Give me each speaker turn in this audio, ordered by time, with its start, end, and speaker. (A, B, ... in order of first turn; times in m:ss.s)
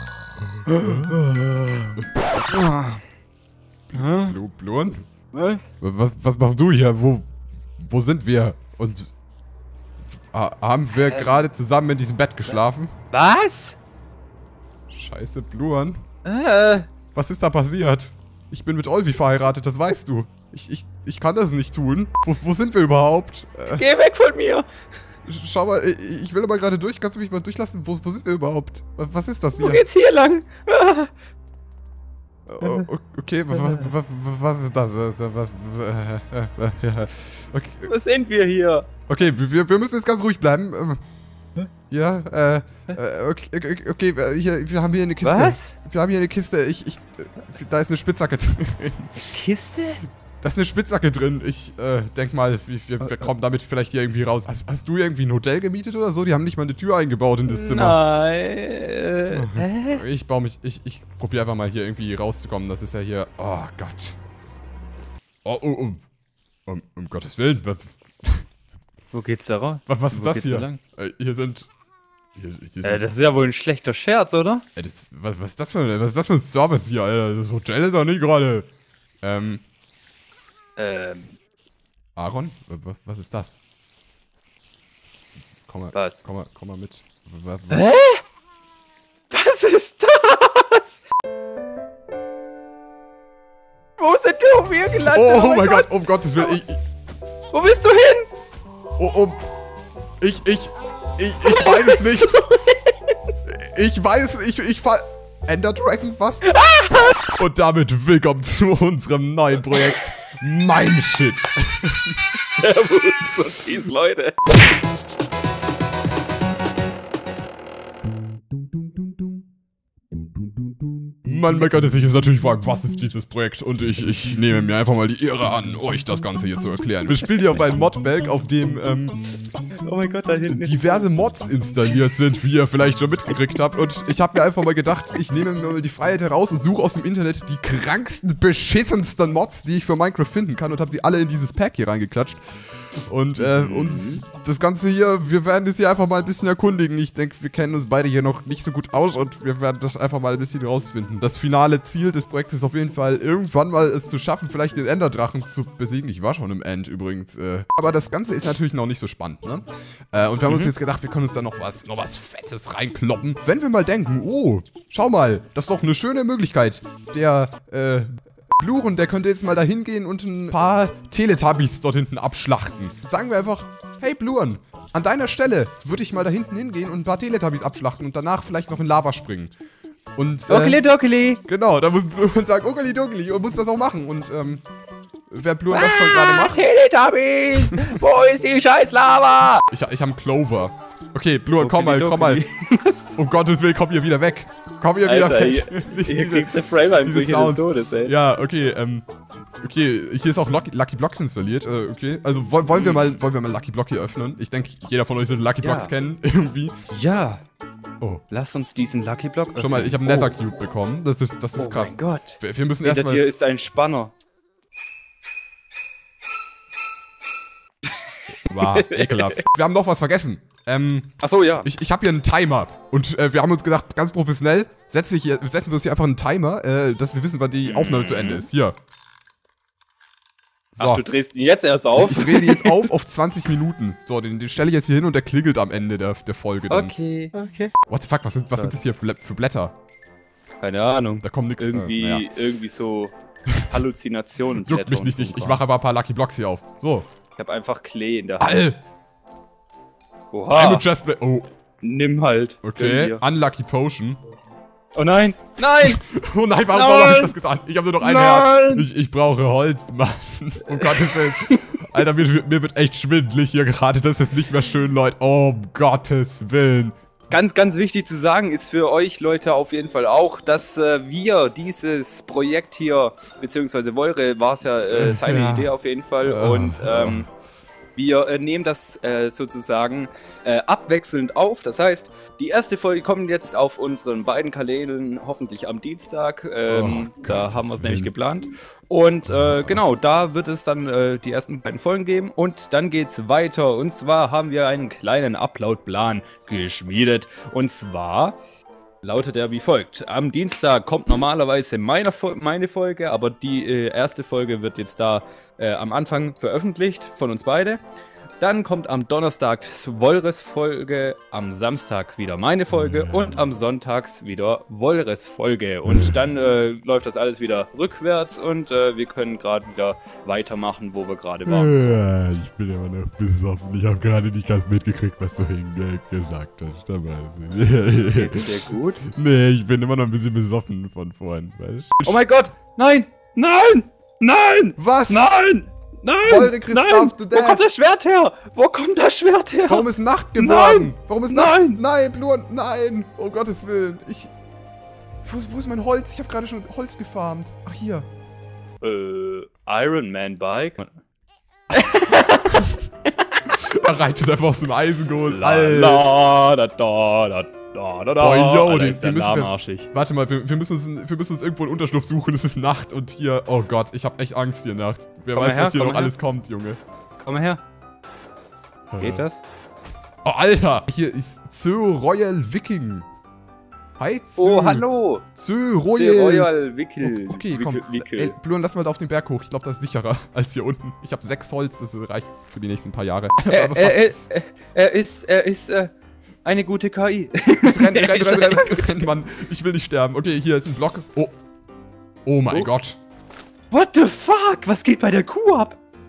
0:00.6-0:01.2 A
0:00.7-0:03.0 B
0:03.9-0:05.0 A
0:03.9-0:04.4 B
0:05.3-0:05.7 B
0:05.8-0:07.3 A
0:07.8-0:09.1 A
0:10.3-0:12.9 A
0:11.0-0:11.4 B
0:13.1-0:13.8 B
0:14.9-0:16.0 A
0:16.2-0:16.9 B
0:17.1-0:23.9 A
0:23.8-0:24.7 B
0:25.3-0:29.8 A
0:29.6-0:31.1 B
0:32.5-0:37.9 A
0:33.5-0:33.8 B
0:37.9-0:38.9 B
0:39.1-0:41.0 A
0:41.9-0:49.2 A
0:45.2-0:45.8 B
0:49.3-0:50.0 B
0:50.4-0:58.0 A
0:53.0-0:53.3 B
0:57.5-1:00.0 B
0:59.3-1:04.2 A
1:05.4-1:06.0 A
1:06.7-1:08.5 A
1:09.1-1:10.8 B
1:09.9-1:11.7 A
1:12.4-1:13.0 A
1:12.8-1:14.6 B
1:14.8-1:18.7 A
1:19.2-1:19.6 A
1:20.8-1:21.4 B
1:22.2-1:23.6 A
1:25.7-1:27.9 A
1:25.9-1:26.2 B
1:27.7-1:28.2 B
1:29.3-1:31.0 B
1:34.0-1:36.6 B
1:35.1-1:36.8 A
1:37.5-1:38.3 B
1:39.0-1:39.4 A
1:40.2-1:42.4 A
1:41.5-1:42.9 B
1:43.4-1:46.5 A
1:46.5-1:47.1 B
1:47.4-1:52.2 A
1:49.7-1:50.0 B
1:52.4-1:54.4 B
2:01.2-2:09.2 A
2:09.8-2:11.1 B
2:10.5-2:59.6 A
2:23.4-2:24.2 B
2:40.5-2:40.7 B
3:00.2-3:00.8 A
3:00.5-3:01.4 B
3:01.5-3:04.6 A
3:05.3-3:06.7 A
3:05.7-3:09.6 B
3:07.6-3:08.0 A
3:09.7-3:12.4 A
3:11.6-3:13.1 B
3:13.2-3:19.1 A
3:15.0-3:18.1 B
3:19.6-3:26.8 A
3:22.7-3:23.2 B
3:25.6-3:25.9 B
3:26.9-3:27.4 B
3:28.3-3:30.3 B
3:29.6-3:33.3 A
3:31.6-3:34.1 B
3:37.9-3:39.4 B
3:38.5-3:48.8 A
3:41.2-3:41.7 B
3:47.6-3:48.5 B
3:50.8-3:51.0 A
3:50.8-3:52.9 B
3:52.0-3:57.0 A
3:56.7-3:57.7 B
3:57.9-3:59.7 A
4:00.6-4:05.6 B
4:01.2-4:02.3 A
4:03.5-4:03.8 A
4:04.6-4:07.1 A
4:07.4-4:08.6 B
4:08.4-4:08.8 A
4:10.3-4:10.8 B
4:10.5-4:11.5 A
4:11.8-4:13.2 B
4:12.6-4:14.2 A
4:15.0-4:16.0 B
4:15.8-4:27.0 A
4:16.7-4:17.4 B
4:18.0-4:18.9 B
4:20.7-4:21.8 B
4:27.3-4:37.3 B
4:34.9-4:37.3 A
4:38.0-4:58.4 B
4:46.7-4:48.1 A
4:49.3-4:49.8 A
4:59.0-5:07.8 B
5:08.4-5:21.8 B
5:12.7-5:13.4 A
5:15.9-5:16.2 A
5:21.4-5:32.2 A
5:28.1-5:29.0 B
5:32.0-5:41.8 B
5:34.8-5:35.4 A
5:36.2-5:37.6 A
5:39.7-5:44.3 A
5:45.2-5:48.1 A
5:48.8-5:50.9 B
5:51.7-5:53.1 B
5:53.5-5:56.1 A
5:55.2-5:59.9 B
5:58.2-6:06.8 A
6:05.4-6:06.2 B
6:07.2-6:07.6 B
6:08.9-6:09.3 A
6:09.0-6:09.4 B
6:10.2-6:13.1 A
6:14.0-6:16.5 A
6:14.4-6:15.2 B
6:15.9-6:18.4 B
6:17.0-6:24.1 A
6:23.5-6:25.9 B
6:26.4-6:29.1 B
6:27.6-6:31.3 A
6:32.3-6:33.0 A
6:33.7-6:35.8 B